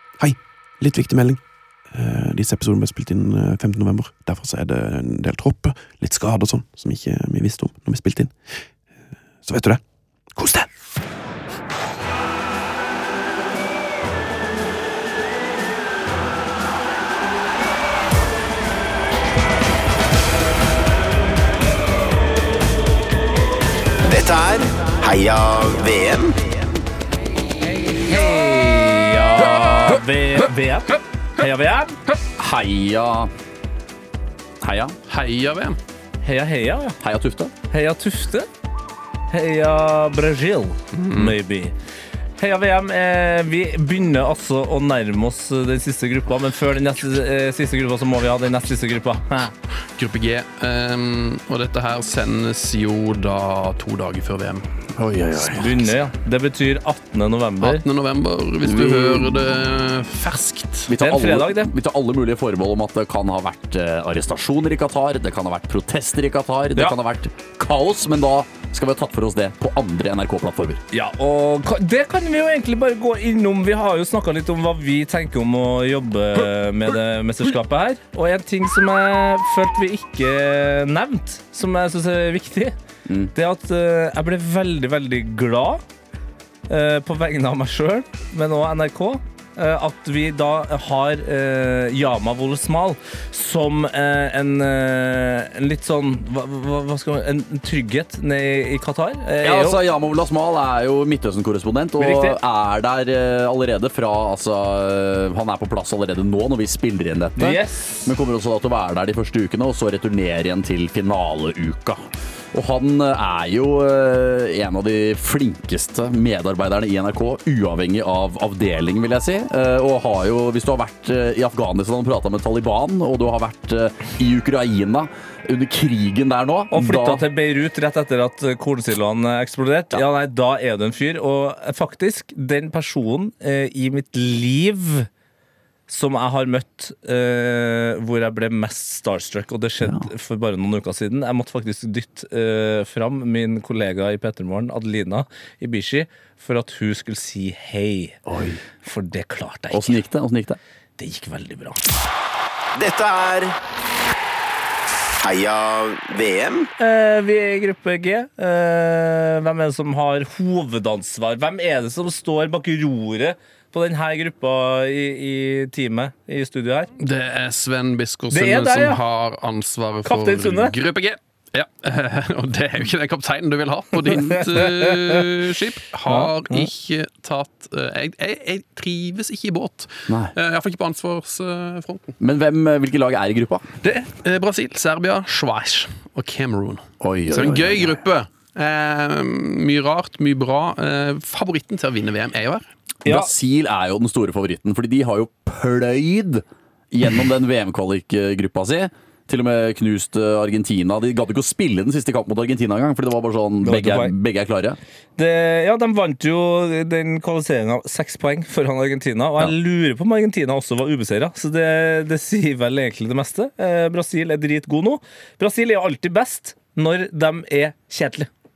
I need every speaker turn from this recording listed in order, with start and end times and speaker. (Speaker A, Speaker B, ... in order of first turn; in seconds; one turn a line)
Speaker A: 0.2-8.4
Speaker A: 9.4-9.8
Speaker A: 10.3-10.7
Speaker B: 24.1-26.8
Speaker C: 27.9-32.0
Speaker D: 32.4-33.3
Speaker D: 34.6-35.0
Speaker E: 35.1-35.8
Speaker C: 36.2-37.0
Speaker D: 37.0-37.5
Speaker C: 37.7-38.5
Speaker C: 39.3-41.7
Speaker E: 40.9-41.4
Speaker C: 42.4-49.5
Speaker E: 50.0-54.7
Speaker D: 55.0-55.9
Speaker C: 55.4-57.8
Speaker E: 57.6-60.9
Speaker D: 58.6-59.4
Speaker D: 60.9-70.8
Speaker C: 61.0-61.7
Speaker C: 70.9-82.8
Speaker D: 83.1-83.3
Speaker C: 83.3-85.8
Speaker C: 86.7-99.8
Speaker D: 99.4-112.0
Speaker C: 102.0-102.4
Speaker C: 107.4-108.1
Speaker D: 112.5-127.2
Speaker C: 126.7-135.1
Speaker C: 135.9-148.2
Speaker D: 148.3-148.6
Speaker C: 148.8-150.0
Speaker D: 149.7-150.6
Speaker C: 151.0-151.8
Speaker B: 152.8-153.6
Speaker B: 155.2-156.7
Speaker C: 156.8-166.9
Speaker E: 167.0-182.1
Speaker C: 168.3-169.0
Speaker C: 170.1-170.8
Speaker C: 174.1-175.2
Speaker C: 176.1-176.7
Speaker D: 180.1-180.3
Speaker D: 182.2-183.7
Speaker E: 183.8-192.7
Speaker D: 187.0-188.0
Speaker D: 193.1-204.8
Speaker C: 193.1-193.3
Speaker C: 203.6-204.1
Speaker C: 205.2-218.3